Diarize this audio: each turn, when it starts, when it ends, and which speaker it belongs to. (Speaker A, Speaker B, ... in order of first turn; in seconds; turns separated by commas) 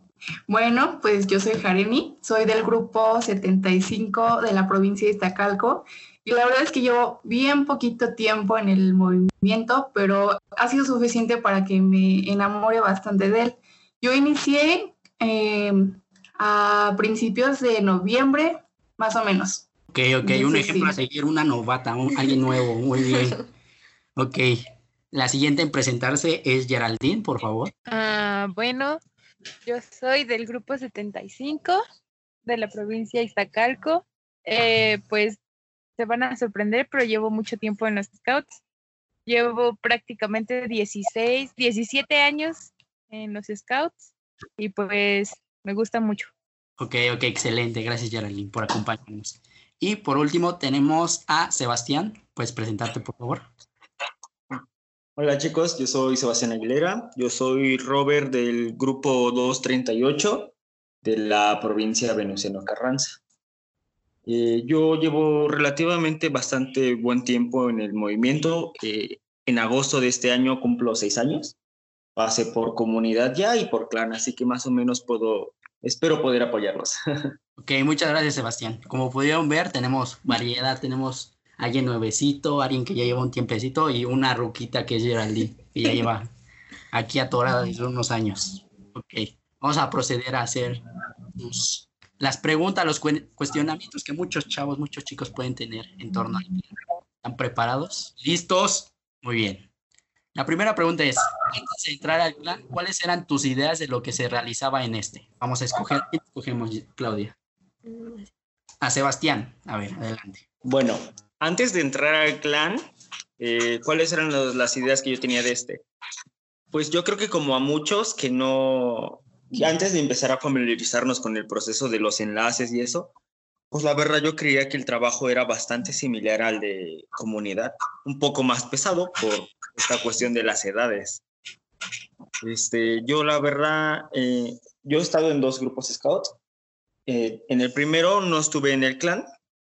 Speaker A: 0.5-19.7, Speaker B: 19.9-23.4, Speaker A: 20.2-20.9, Speaker B: 24.2-27.7, Speaker C: 27.9-29.0, Speaker C: 29.6-31.8, Speaker C: 32.4-35.4, Speaker C: 36.0-38.6, Speaker C: 39.3-44.0, Speaker C: 44.6-46.3, Speaker B: 46.8-53.5, Speaker D: 55.2-63.2, Speaker D: 64.3-71.6, Speaker D: 72.2-77.0, Speaker B: 77.6-86.3, Speaker B: 86.9-90.8, Speaker B: 91.4-96.6, Speaker B: 97.2-99.7, Speaker B: 100.3-107.3, Speaker B: 108.8-110.4, Speaker D: 110.6-112.8, Speaker D: 113.4-115.8, Speaker D: 116.7-123.1, Speaker D: 123.7-131.2, Speaker D: 132.4-136.4, Speaker D: 137.1-139.3